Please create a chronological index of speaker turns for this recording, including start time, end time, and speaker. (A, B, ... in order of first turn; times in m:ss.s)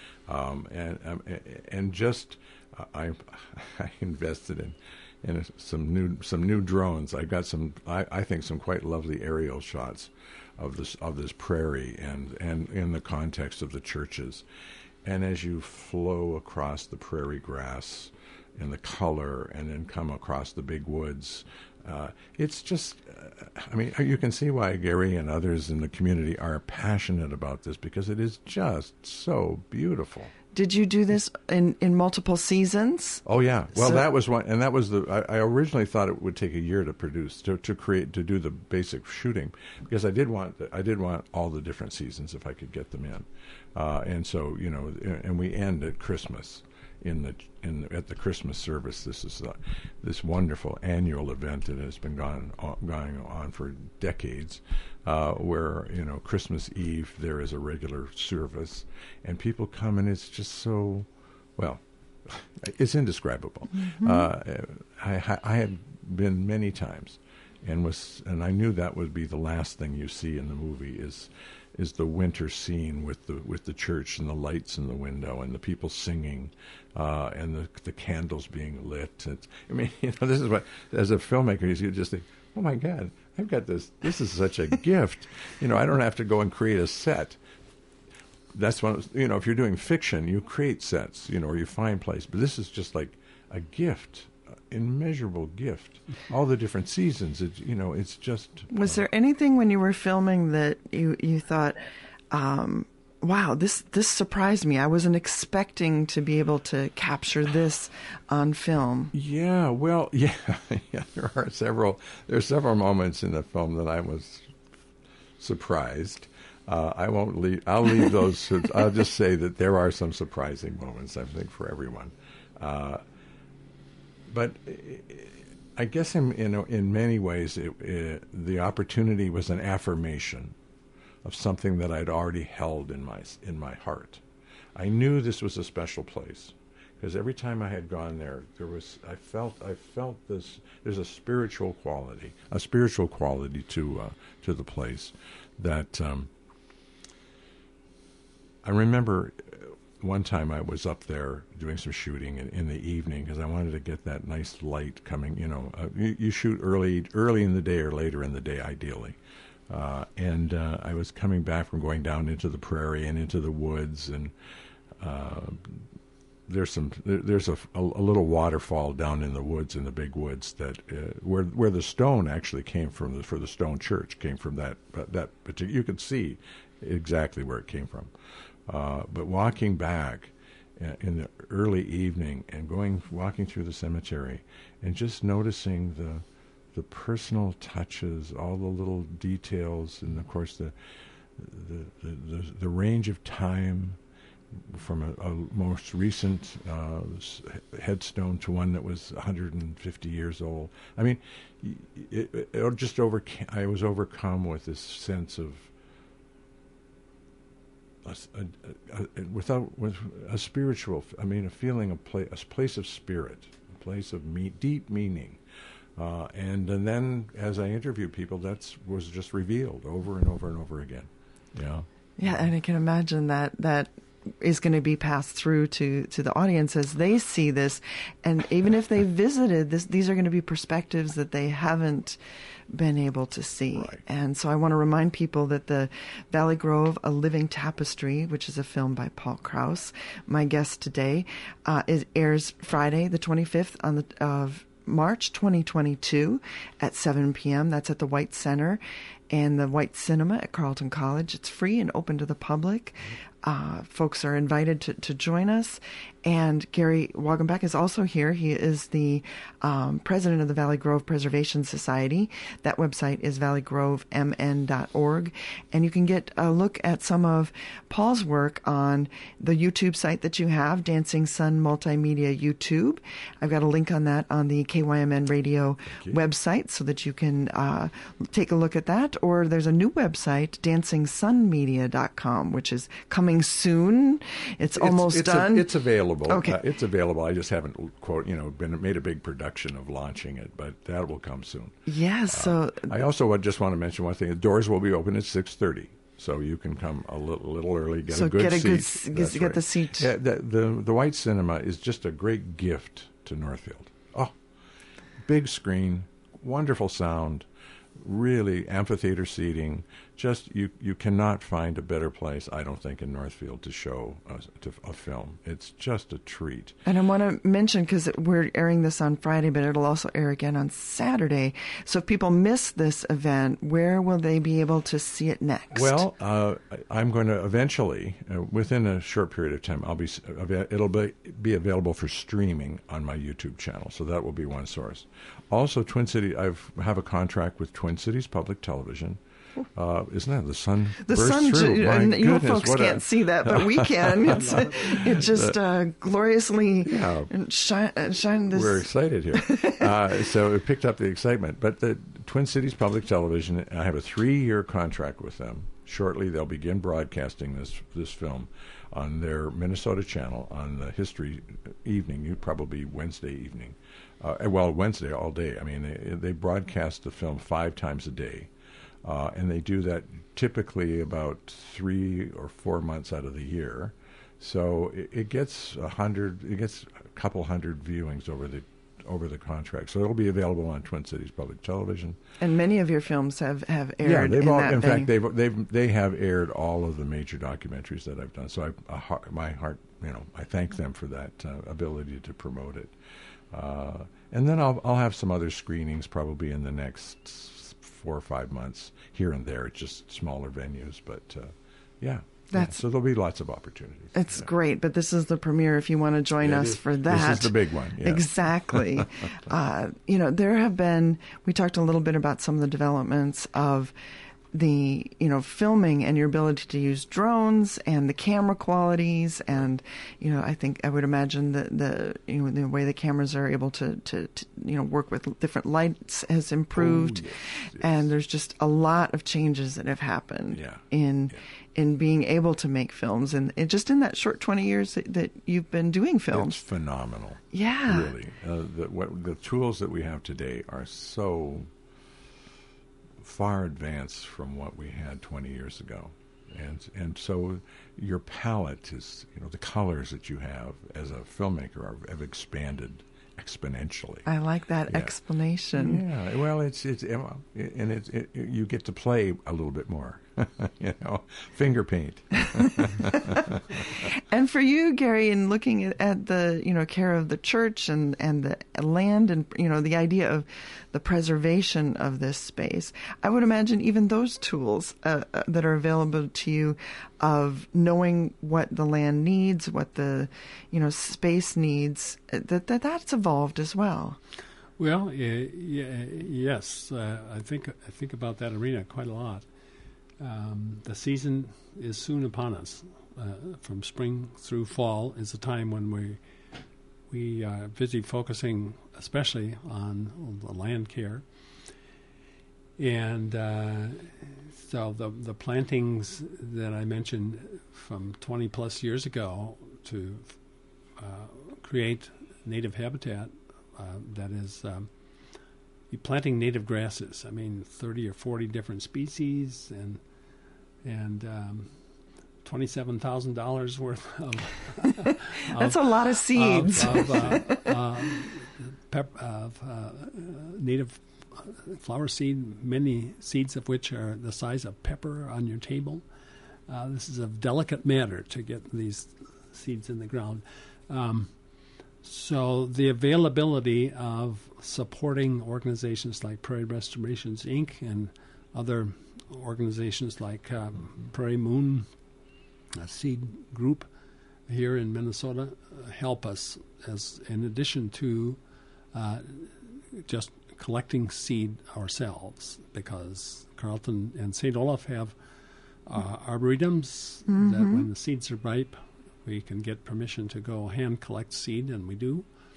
0:00.3-0:14.4 A
0:15.0-0:30.3 A
0:30.5-0:33.2 B
0:33.3-1:27.4 A
0:33.8-0:34.0 B
1:03.8-1:04.3 B
1:28.5-1:39.0 A
1:38.7-1:41.8 B
1:42.3-1:49.1 B
1:49.1-1:54.5 A
1:55.4-2:03.0 A
2:04.3-2:10.5 A
2:11.2-2:14.2 A
2:14.8-2:26.3 A
2:28.6-2:39.2 A
2:39.7-2:44.3 A
2:45.0-2:45.8 A
2:46.5-2:58.1 A
2:58.7-3:06.2 A
3:06.7-3:10.7 A
3:11.4-3:14.0 A
3:14.7-3:25.7 A
3:28.0-3:35.4 A
3:36.0-3:42.5 A
3:42.2-3:52.2 B
3:52.7-4:45.7 B
4:35.9-4:36.2 A
4:44.8-4:51.8 A
4:46.3-4:46.6 B
4:51.9-4:53.0 B
4:52.3-5:04.4 A
4:58.1-5:00.1 B
5:05.2-5:07.5 A
5:08.0-5:16.8 A
5:16.9-5:26.0 B
5:25.7-5:39.2 A
5:39.8-5:45.6 A
5:41.0-5:49.9 B
5:44.5-5:45.0 C
5:46.8-5:47.3 A
5:48.5-6:08.5 A
6:09.0-6:22.2 A
6:22.4-6:25.1 B
6:24.0-6:32.9 A
6:33.5-6:44.5 A
6:42.5-6:42.8 B
6:44.2-6:53.9 B
6:46.4-6:49.1 A
6:54.5-7:16.6 B
7:06.8-7:08.1 A
7:10.5-7:11.4 A
7:16.3-7:21.7 A
7:17.5-7:18.1 B
7:23.2-7:34.3 A
7:34.3-7:36.0 B
7:34.9-7:35.1 A
7:35.7-7:44.0 A
7:42.8-8:04.2 B
8:04.8-8:09.5 C
8:10.2-8:16.2 C
8:17.1-8:21.2 C
8:22.8-8:30.4 C
8:31.0-8:34.9 C
8:35.9-8:40.0 C
8:40.8-8:41.7 C
8:42.4-8:56.0 C
8:45.5-8:47.8 B
8:56.7-9:01.4 C
9:02.0-9:11.9 C
9:12.7-9:13.9 C
9:14.5-9:18.4 C
9:18.9-9:25.2 C
9:25.8-9:32.3 C
9:27.3-9:27.9 B